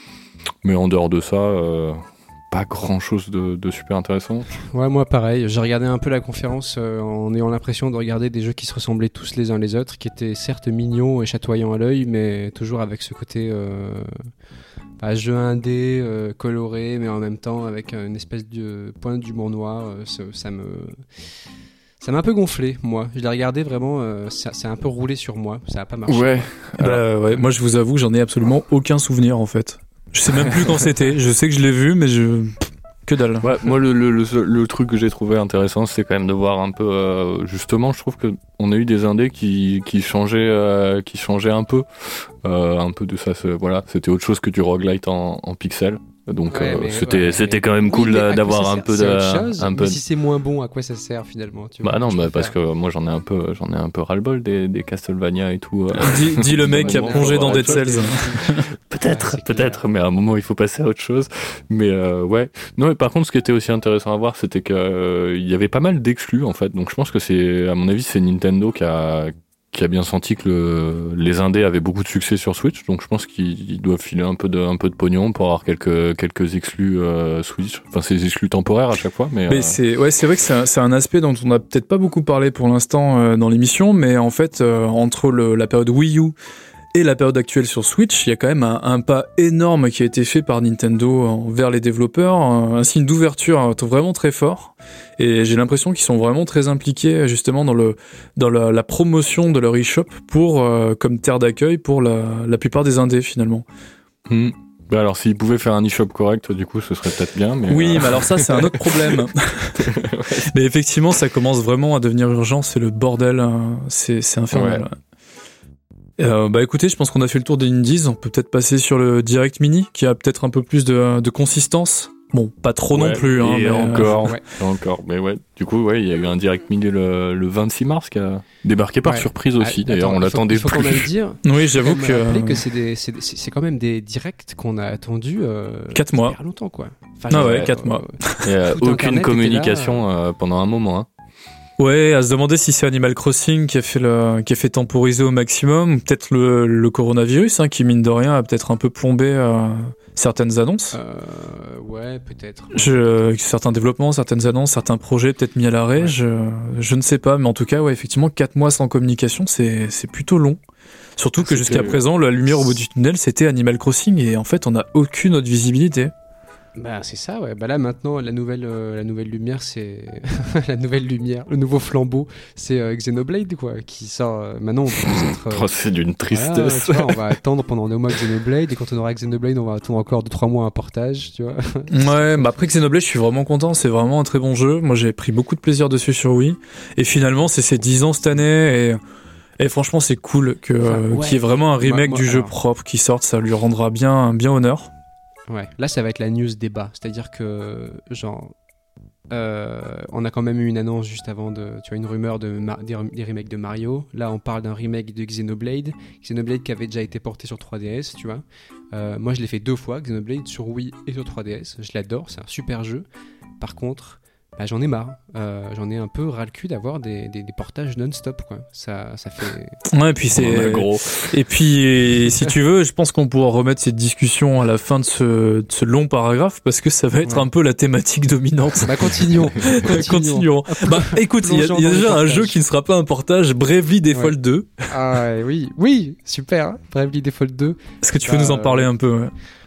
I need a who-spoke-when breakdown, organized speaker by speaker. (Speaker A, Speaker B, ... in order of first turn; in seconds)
Speaker A: 0.6-4.5, 26.1-27.0, 33.4-50.0, 51.8-79.8, 104.3-109.2, 109.8-110.5, 114.5-114.8, 122.9-131.1, 137.3-137.7, 138.4-141.1, 161.6-162.0, 175.0-177.2, 220.3-221.3
Speaker B: 4.7-14.1, 15.0-21.1, 22.0-26.5, 46.5-52.5, 56.6-58.5, 59.0-59.8, 124.1-124.4, 129.0-140.0, 150.9-153.3, 161.4-161.9, 166.8-175.7, 176.3-182.6, 190.8-192.5, 195.5-198.5, 199.3-213.1, 213.6-219.8, 228.8-232.6, 234.9-238.9
Speaker C: 26.8-33.5, 55.9-58.6, 79.5-86.3, 86.9-103.7, 107.7-115.0, 116.2-124.3, 131.4-132.6, 135.9-136.3, 137.3-138.5, 141.8-150.9, 152.7-160.6, 161.2-166.1, 181.9-189.0, 189.6-194.9, 219.9-234.9, 238.0-239.3